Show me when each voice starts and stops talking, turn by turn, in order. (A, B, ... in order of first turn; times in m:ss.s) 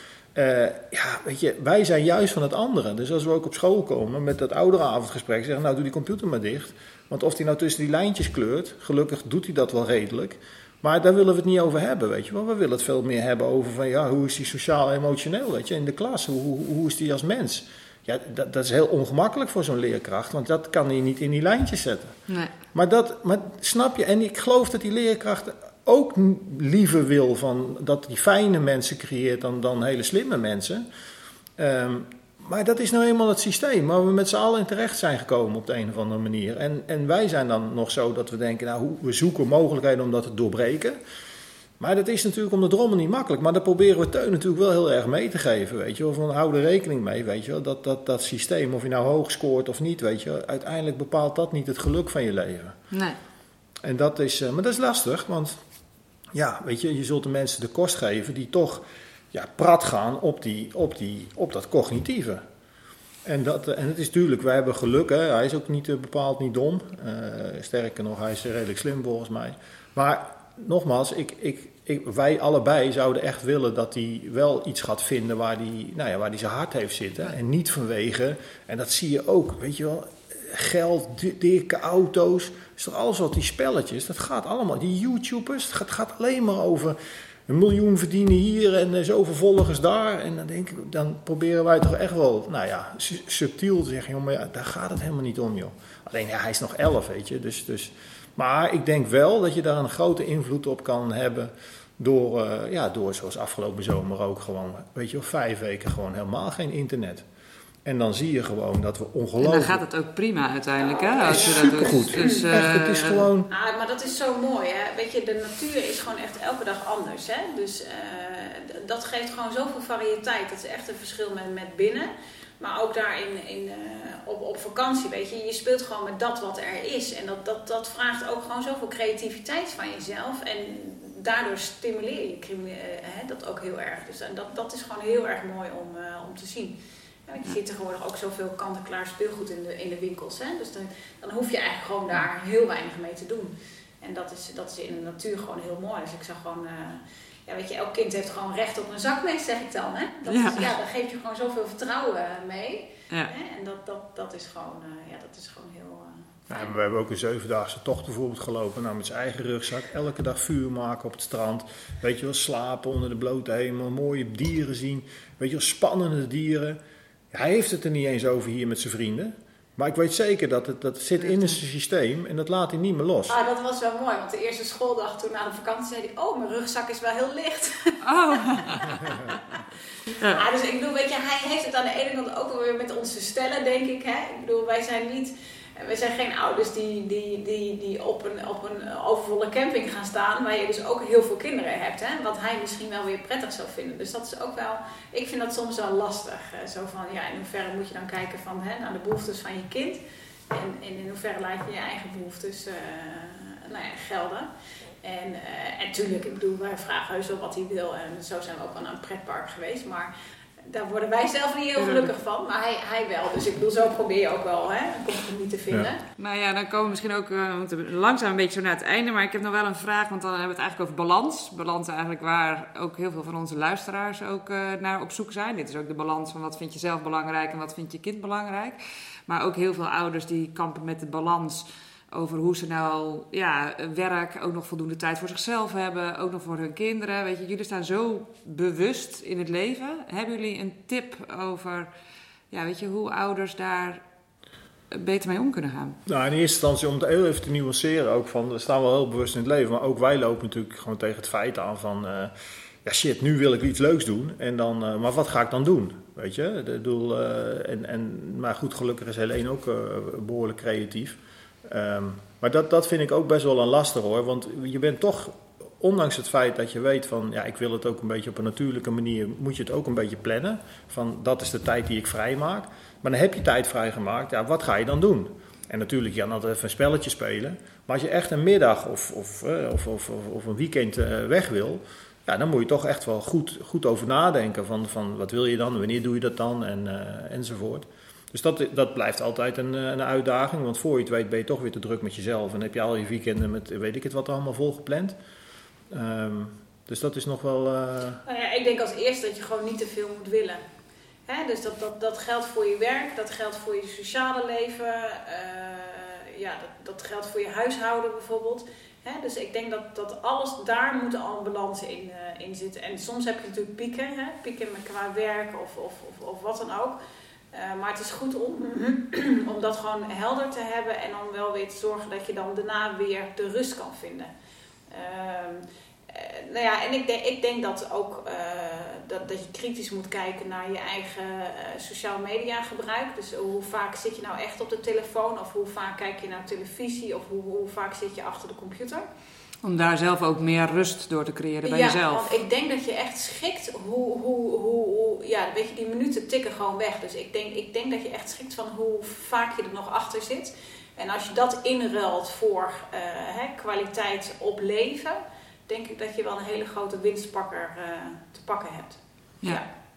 0:00.3-0:22.2 A
0:22.3-0:22.5 B
0:22.7-0:30.8 A
0:31.6-0:41.0 A
0:41.8-0:52.8 A
0:52.9-0:53.2 B
0:53.8-0:55.6 A
0:56.3-1:02.4 A
1:03.2-1:47.2 A
1:47.8-1:49.8 A
1:49.4-1:53.3 B
1:50.8-1:52.4 C
1:51.2-1:53.5 A
1:53.5-2:36.7 C
2:30.3-2:30.7 B
2:36.5-2:46.8 A
2:47.3-2:53.4 A
2:51.3-2:51.6 B
2:53.3-2:59.6 C
2:58.0-2:59.4 B
3:00.1-3:00.4 B
3:00.2-3:24.5 C
3:25.0-3:36.0 C
3:31.8-3:32.1 B
3:36.2-4:01.9 B
4:02.5-4:04.0 B
4:04.9-4:06.0 B
4:06.0-4:12.3 A
4:12.8-4:55.2 A
4:55.9-4:58.2 A
4:58.2-5:00.6 C
5:01.3-5:17.0 C
5:17.5-5:24.3 C
5:24.9-5:39.0 C
5:39.6-5:42.3 B
5:41.6-5:59.7 C